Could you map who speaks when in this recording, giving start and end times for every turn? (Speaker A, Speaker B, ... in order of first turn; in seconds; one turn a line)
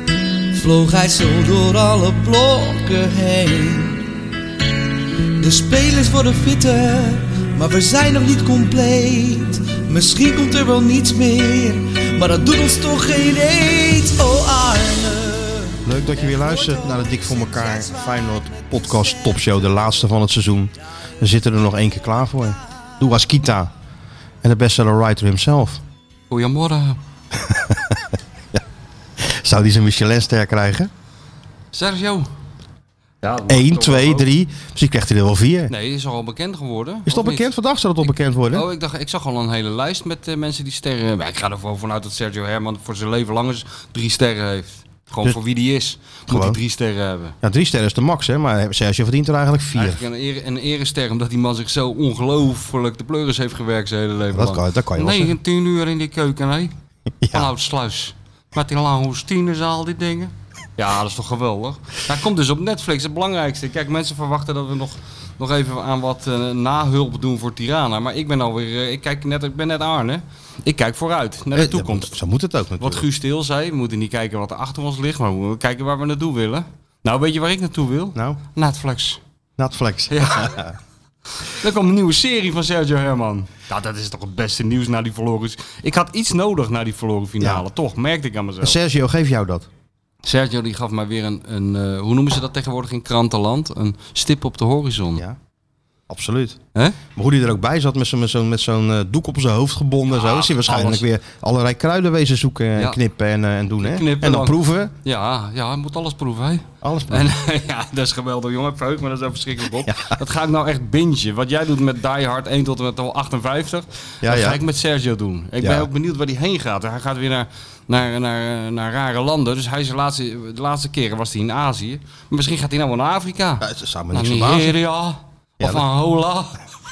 Speaker A: 0.5-4.1
Speaker A: 5.4-19.3
Speaker B: 15.8-23.7
Speaker B: 24.4-25.8
Speaker C: 26.3-27.0
Speaker B: 27.3-28.6
Speaker B: 29.2-30.9
Speaker C: 31.7-32.3
Speaker C: 33.2-34.3
Speaker B: 33.5-35.7
Speaker C: 35.7-37.5
Speaker B: 37.1-38.7
Speaker C: 38.5-47.4
Speaker B: 46.3-46.6
Speaker B: 47.4-50.0
Speaker C: 49.8-56.7
Speaker B: 54.3-55.4
Speaker B: 57.2-57.5
Speaker C: 57.3-72.2
Speaker B: 71.5-73.1
Speaker C: 72.8-79.2
Speaker B: 79.6-80.8
Speaker C: 80.1-80.6
Speaker C: 81.4-88.8
Speaker B: 87.4-87.7
Speaker B: 88.6-89.7
Speaker C: 90.2-95.2
Speaker B: 96.1-96.6
Speaker B: 97.2-104.9
Speaker C: 100.2-101.0
Speaker C: 103.8-126.6
Speaker B: 106.8-107.3
Speaker B: 109.9-110.2
Speaker B: 114.2-114.6
Speaker B: 115.6-115.9
Speaker B: 123.6-124.8